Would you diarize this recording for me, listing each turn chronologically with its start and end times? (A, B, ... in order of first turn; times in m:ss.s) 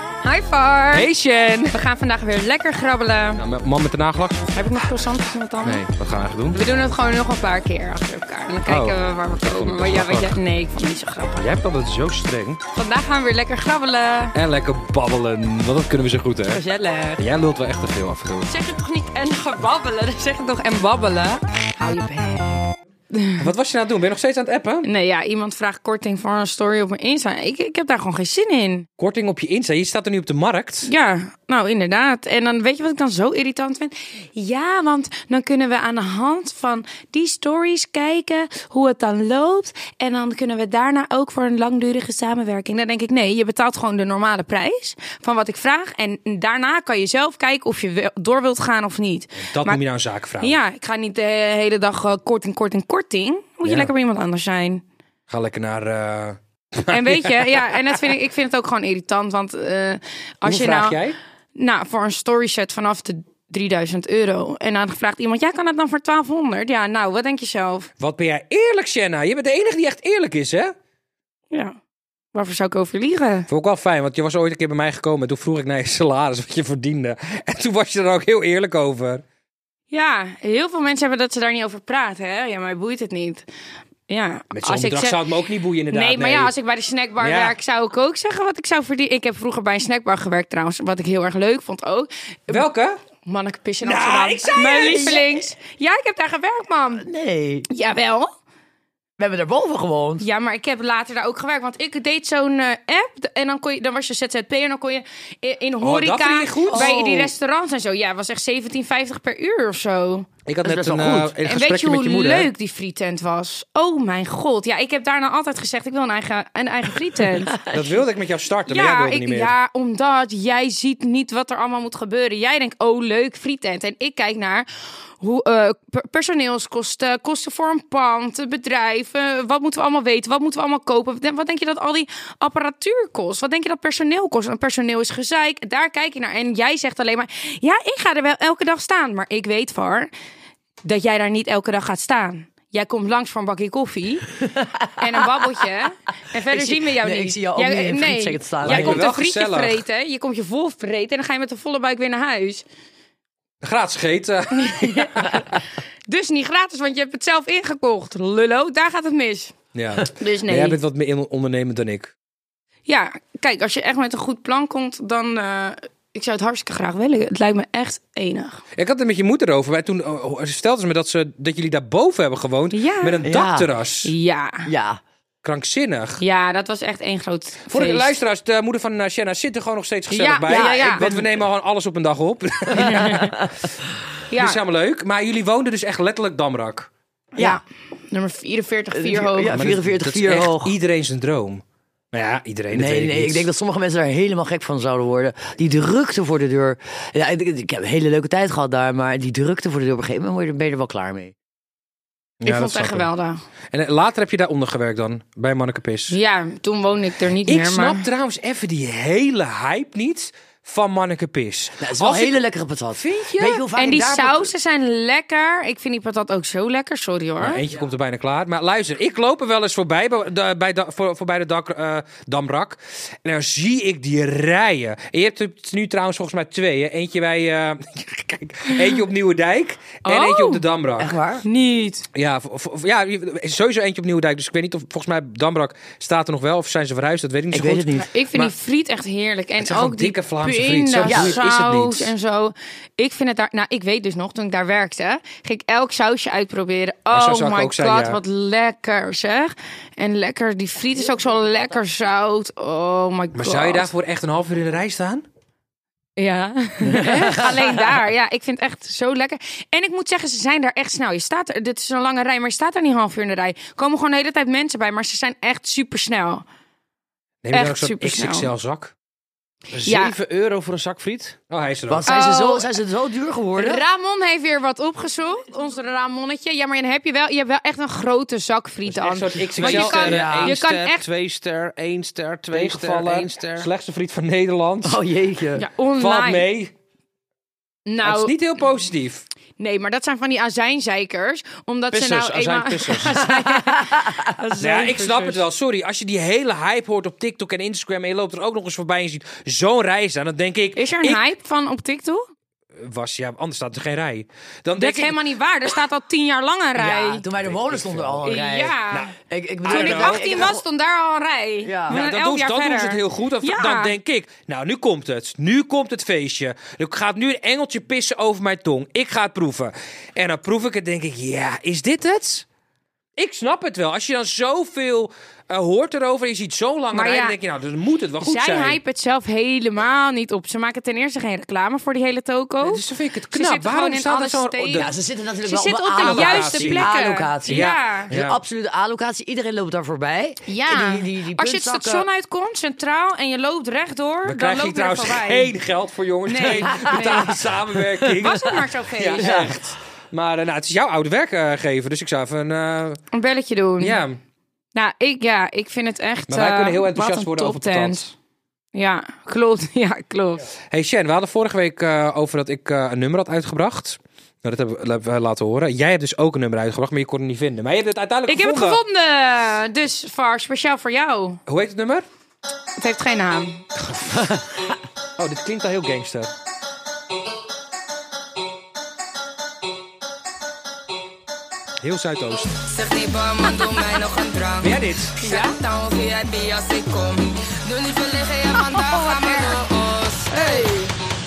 0:00.2-0:01.1 A
0:00.9-0:01.7 B
0:01.7-0:03.4 A
0:03.4-0:04.4 B
0:04.5-0:05.8 A
0:05.6-0:06.6 B
0:06.5-0:11.5 A
0:08.7-0:10.4 B
0:11.4-0:12.6 B
0:12.8-0:14.4 A
0:14.3-0:16.6 B
0:16.5-0:17.2 A
0:17.2-0:18.5 B
0:18.5-0:23.4 A
0:23.4-0:24.9 B
0:24.8-0:28.9 A
0:29.0-0:30.9 B
0:30.9-0:49.8 A
0:49.4-0:50.6 B
0:50.4-0:54.8 A
0:53.6-0:53.9 B
0:55.3-0:57.9 B
0:56.9-1:01.0 A
1:00.4-1:01.2 B
1:01.6-1:07.9 A
1:08.0-1:10.7 B
1:11.5-1:11.8 A
1:12.3-1:13.5 A
1:13.5-1:19.2 B
1:19.9-1:23.5 A
1:24.1-1:25.2 A
1:24.5-1:26.5 B
1:25.9-1:32.6 A
1:27.2-1:27.5 B
1:32.5-1:33.0 B
1:33.2-1:37.1 A
1:33.8-1:35.2 B
1:34.6-1:35.4 C
1:37.0-1:37.7 C
1:37.7-1:38.3 A
1:39.2-1:40.2 C
1:40.2-1:50.3 A
1:45.8-1:47.3 B
1:46.7-1:47.0 C
1:50.5-1:52.5 B
1:50.6-1:51.4 C
1:51.4-1:57.6 A
1:57.6-1:58.0 C
1:57.7-1:59.6 B
1:58.7-2:04.7 A
2:05.2-2:20.1 A
2:20.8-2:24.4 A
2:24.4-2:25.4 C
2:24.9-2:32.6 A
2:26.5-2:29.0 C
2:28.6-2:29.8 B
2:33.6-2:35.4 B
2:34.5-2:40.8 A
2:39.7-2:42.1 B
2:42.9-2:48.6 A
2:48.8-2:54.1 B
2:52.7-2:53.2 A
2:53.2-2:53.7 C
2:54.0-2:54.7 A
2:54.7-2:55.0 C
2:55.4-2:56.2 B
2:56.2-2:58.1 A
2:57.7-3:03.4 B
3:00.1-3:01.1 A
3:00.5-3:01.4 C
3:02.8-3:03.2 A
3:02.8-3:03.7 C
3:04.3-3:04.6 A
3:04.3-3:06.9 B
3:07.4-3:09.6 A
3:08.9-3:10.8 C
3:09.5-3:11.6 B
3:12.1-3:13.5 B
3:12.7-3:21.3 C
3:22.4-3:23.1 B
3:22.4-3:23.4 A
3:23.7-3:26.2 B
3:26.1-3:28.1 A
3:27.5-3:32.4 B
3:31.8-3:34.5 C
3:33.0-3:33.6 B
3:33.8-3:37.6 A
3:37.4-3:51.2 B
3:50.0-3:50.6 A
3:51.0-3:51.4 C
3:51.4-3:52.1 A
3:52.1-3:58.5 B
3:57.5-3:58.1 C
3:58.0-4:13.9 A
3:59.6-4:02.1 B
4:01.0-4:01.4 C
4:07.1-4:08.2 B
4:13.4-4:15.2 B
4:16.2-4:26.4 A
4:16.9-4:17.4 C
4:17.0-4:17.6 B
4:27.4-4:28.9 B
4:27.5-4:28.5 A
4:29.7-4:31.4 D
4:29.8-4:30.2 A
4:31.5-4:32.1 B
4:31.9-4:33.8 C
4:32.1-4:32.7 A
4:33.6-4:41.0 A
4:38.9-4:40.5 B
4:39.6-4:40.6 C
4:39.6-4:43.7 D
4:42.5-4:45.0 B
4:44.8-4:45.6 C
4:45.6-4:46.5 A
4:46.0-4:46.7 B
4:47.9-4:48.3 A
4:48.0-4:49.2 B
4:49.6-4:55.4 A
4:51.9-4:53.2 B
4:53.6-4:54.3 C
4:54.6-5:01.2 B
5:00.8-5:02.3 A
5:02.8-5:05.2 B
5:04.8-5:07.3 A
5:06.8-5:08.8 C
5:07.4-5:08.2 B
5:08.2-5:09.1 A
5:09.3-5:10.6 C
5:09.6-5:10.2 B
5:09.7-5:13.9 A
5:11.6-5:12.0 C
5:11.9-5:22.4 B
5:23.2-5:28.8 B
5:26.9-5:27.4 A
5:28.2-5:34.9 A
5:32.6-5:34.9 B
5:34.7-5:42.1 C
5:35.4-5:38.1 A
5:36.0-5:36.9 B
5:37.4-5:38.4 B
5:40.5-5:45.5 A
5:44.2-5:53.0 B
5:46.3-5:47.4 A
5:48.2-5:49.5 A
5:49.2-5:49.5 C
5:53.1-5:54.0 A
5:53.8-5:54.2 B
5:54.8-5:58.1 A
5:56.3-5:58.0 B
5:58.7-6:00.4 A
6:00.7-6:08.8 B
6:08.3-6:11.4 A
6:11.5-6:12.1 B
6:12.8-6:13.6 A
6:13.8-6:14.4 B
6:15.2-6:16.3 B
6:21.8-6:22.6 B
6:22.7-6:30.8 E
6:24.6-6:25.2 B
6:25.2-6:25.6 A
6:28.7-6:29.6 A
6:30.3-6:30.9 A